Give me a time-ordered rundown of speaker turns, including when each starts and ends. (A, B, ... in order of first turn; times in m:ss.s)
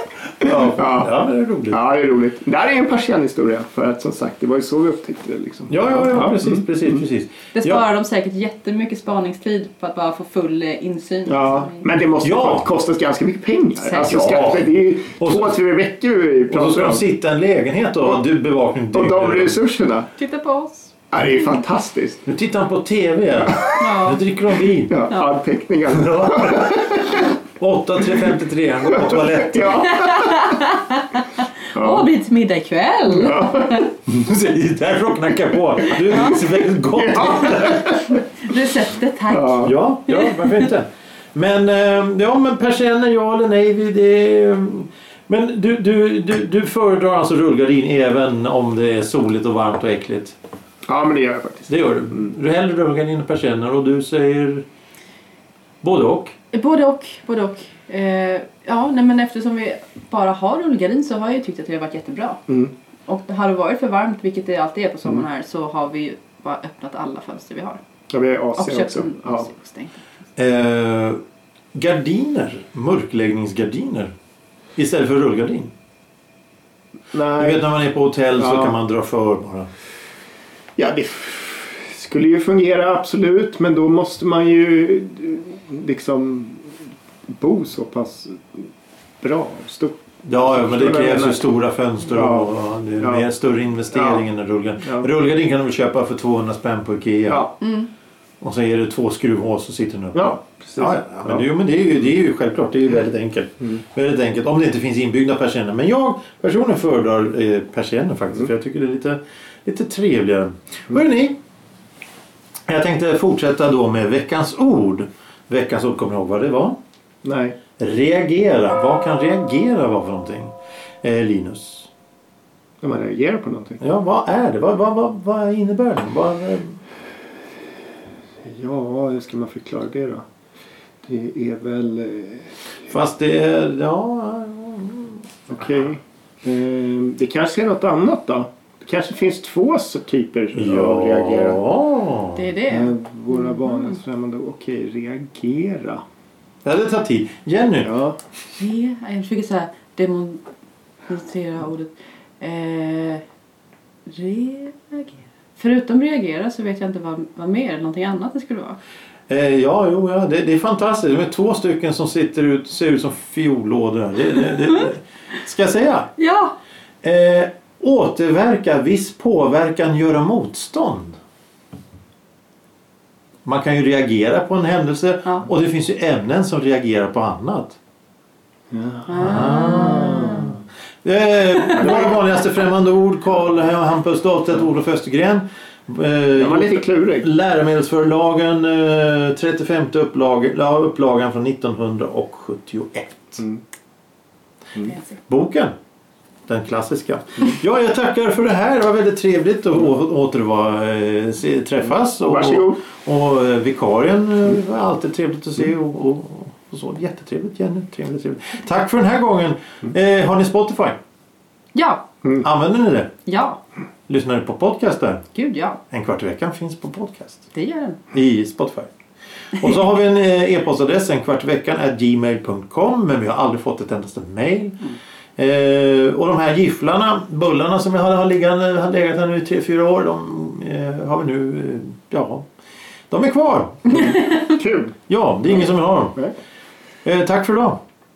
0:00.4-0:01.8 A
0:00.4-0:01.2 B
0:01.7-0:07.0 B
0:05.7-0:07.8 A
0:07.5-0:11.9 C
0:11.3-0:17.0 B
0:12.2-0:12.7 A
0:13.8-0:14.4 C
0:14.0-0:15.6 A
0:16.5-0:19.6 A
0:18.9-0:20.1 B
0:20.2-0:20.9 C
0:21.1-0:22.2 B
0:22.2-0:25.0 A
0:23.5-0:23.8 B
0:23.8-0:24.2 C
0:24.8-0:27.3 B
0:25.1-0:25.3 C
0:25.9-0:27.0 A
0:27.6-0:30.0 A
0:28.9-0:30.2 B
0:29.8-0:33.9 C
0:31.7-0:32.1 B
0:33.1-0:33.8 B
0:34.0-0:38.0 A
0:35.9-0:36.5 C
0:36.9-0:38.1 B
0:37.2-0:40.7 C
0:39.3-0:39.7 B
0:39.6-0:50.4 A
0:50.8-0:52.3 B
0:51.7-0:54.6 A
0:55.8-0:56.3 A
0:56.5-1:02.4 C
1:03.1-1:07.8 C
1:08.1-1:09.5 B
1:08.5-1:10.0 C
1:10.4-1:11.2 A
1:11.7-1:14.1 A
1:14.8-1:15.7 A
1:17.1-1:17.6 B
1:17.3-1:19.7 A
1:18.3-1:18.8 B
1:20.8-1:26.8 B
1:27.3-1:28.7 B
1:29.2-1:31.4 B
1:30.2-1:37.5 A
1:32.1-1:33.3 B
1:33.9-1:34.2 B
1:34.8-1:35.1 B
1:37.3-1:37.6 B
1:37.6-1:37.9 C
1:38.4-1:51.4 A
1:40.1-1:41.4 B
1:52.7-1:56.8 A
1:57.2-1:57.6 B
1:57.8-2:01.9 A
2:02.8-2:03.8 B
2:03.8-2:06.8 A
2:08.4-2:10.2 B
2:11.0-2:12.5 B
2:12.9-2:15.2 A
2:15.5-2:21.6 B
2:20.5-2:22.5 A
2:22.3-2:24.0 C
2:22.7-2:26.0 B
2:26.6-2:27.9 A
2:27.8-2:28.2 B
2:28.5-2:30.4 C
2:31.1-2:33.2 C
2:34.1-2:38.8 C
2:39.3-2:46.1 A
2:46.2-2:46.5 C
2:47.0-2:51.2 A
2:53.4-2:57.8 A
2:58.7-2:59.2 B
2:59.1-3:00.5 C
2:59.2-3:13.4 A
2:59.8-3:00.4 B
3:01.8-3:02.2 B
3:06.3-3:07.3 B
3:14.8-3:15.1 C
3:15.3-3:15.7 A
3:16.5-3:31.0 A
3:22.2-3:22.8 B
3:31.7-3:32.1 C
3:32.4-3:33.1 A
3:33.2-3:33.6 C
3:34.1-3:35.2 A
3:35.3-3:35.8 C
3:35.9-3:37.4 A
3:37.5-3:38.0 C
3:38.1-3:38.9 A
3:39.6-3:52.4 A
3:53.1-3:54.0 A
3:53.9-3:54.5 C
3:53.9-3:55.0 B
3:55.1-3:56.2 A
3:55.6-3:56.3 B
3:57.0-3:57.8 A